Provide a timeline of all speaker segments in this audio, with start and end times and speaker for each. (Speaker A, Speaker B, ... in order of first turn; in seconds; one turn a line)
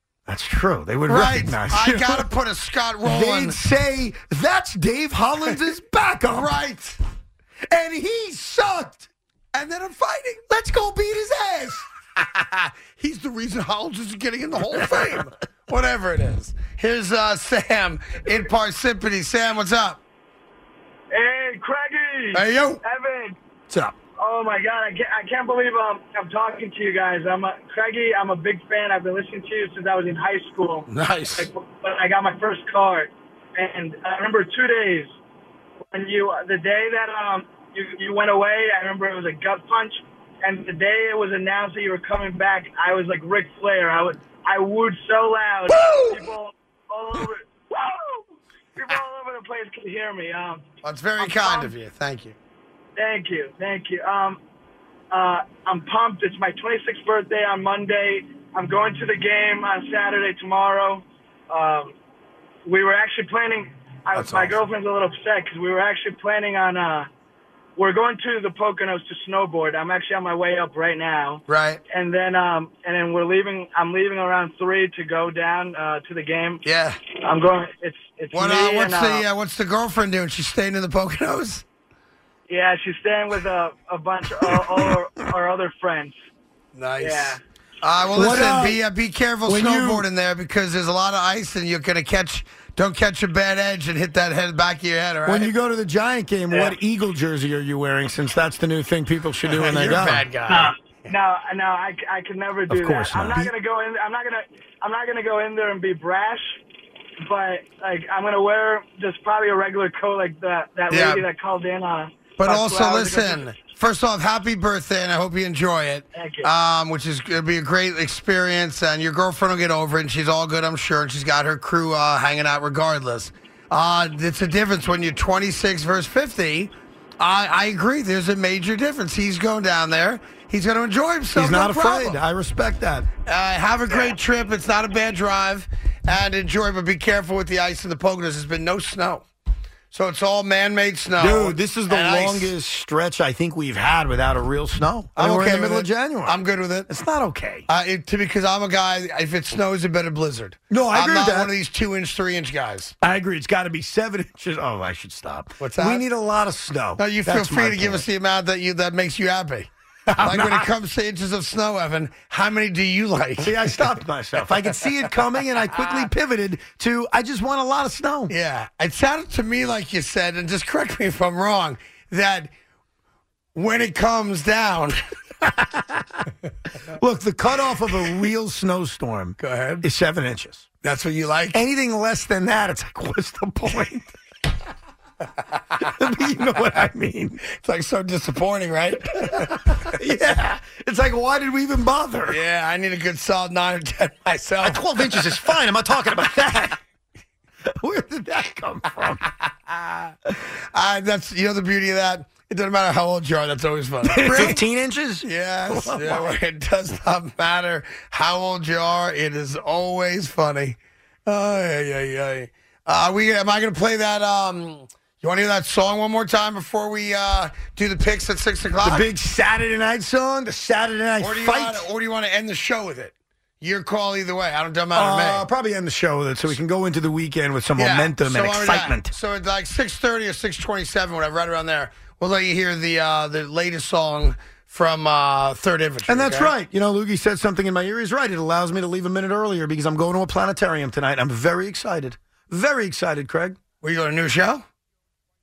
Speaker A: 0.2-2.3
Speaker B: 1.1-3.6
Speaker A: 3.0-6.5
Speaker B: 6.3-7.0
Speaker A: 7.7-9.1
Speaker B: 9.5-10.4
Speaker A: 10.5-11.8
Speaker B: 12.2-20.0
Speaker C: 21.1-23.4
Speaker B: 22.3-22.8
Speaker A: 23.7-23.9
Speaker C: 24.2-35.1
Speaker B: 30.9-31.5
Speaker C: 35.9-48.2
Speaker A: 45.7-46.3
Speaker C: 48.8-50.6
Speaker B: 50.8-52.4
Speaker C: 51.2-51.7
Speaker C: 53.0-54.4
Speaker C: 55.1-61.9
Speaker C: 62.6-67.1
Speaker B: 64.1-64.6
Speaker C: 67.8-76.6
Speaker B: 71.5-71.8
Speaker B: 76.6-77.0
Speaker C: 77.1-79.2
Speaker B: 78.3-81.6
Speaker C: 82.5-86.2
Speaker B: 86.7-95.5
Speaker C: 87.0-87.4
Speaker A: 88.1-88.8
Speaker A: 89.5-90.0
Speaker A: 95.2-100.2
Speaker B: 99.5-101.1
Speaker C: 100.5-106.6
Speaker A: 102.7-103.5
Speaker C: 107.2-113.6
Speaker B: 110.9-111.2
Speaker B: 112.4-132.2
Speaker C: 116.1-116.5
Speaker A: 131.3-133.1
Speaker B: 133.2-139.2
Speaker B: 139.9-142.5
Speaker A: 141.2-147.7
Speaker B: 145.2-146.9
Speaker B: 147.7-152.9
Speaker A: 150.7-151.5
Speaker A: 153.0-158.1
Speaker B: 155.6-156.0
Speaker B: 157.0-163.7
Speaker A: 160.2-160.7
Speaker A: 163.4-168.3
Speaker B: 168.3-172.5
Speaker B: 173.5-175.0
Speaker A: 175.6-176.0
Speaker A: 176.9-180.7
Speaker B: 179.4-179.8
Speaker B: 180.8-181.6
Speaker A: 181.5-184.1
Speaker A: 185.8-187.4
Speaker B: 187.5-189.9
Speaker A: 189.8-192.4
Speaker B: 192.3-195.5
Speaker A: 194.6-196.8
Speaker A: 197.8-199.2
Speaker B: 199.7-200.1
Speaker B: 200.7-204.6
Speaker A: 204.0-206.3
Speaker B: 205.2-219.1
Speaker A: 218.8-221.9
Speaker B: 221.2-225.4
Speaker A: 224.9-229.1
Speaker B: 227.8-236.5
Speaker A: 236.1-243.6
Speaker B: 243.8-244.6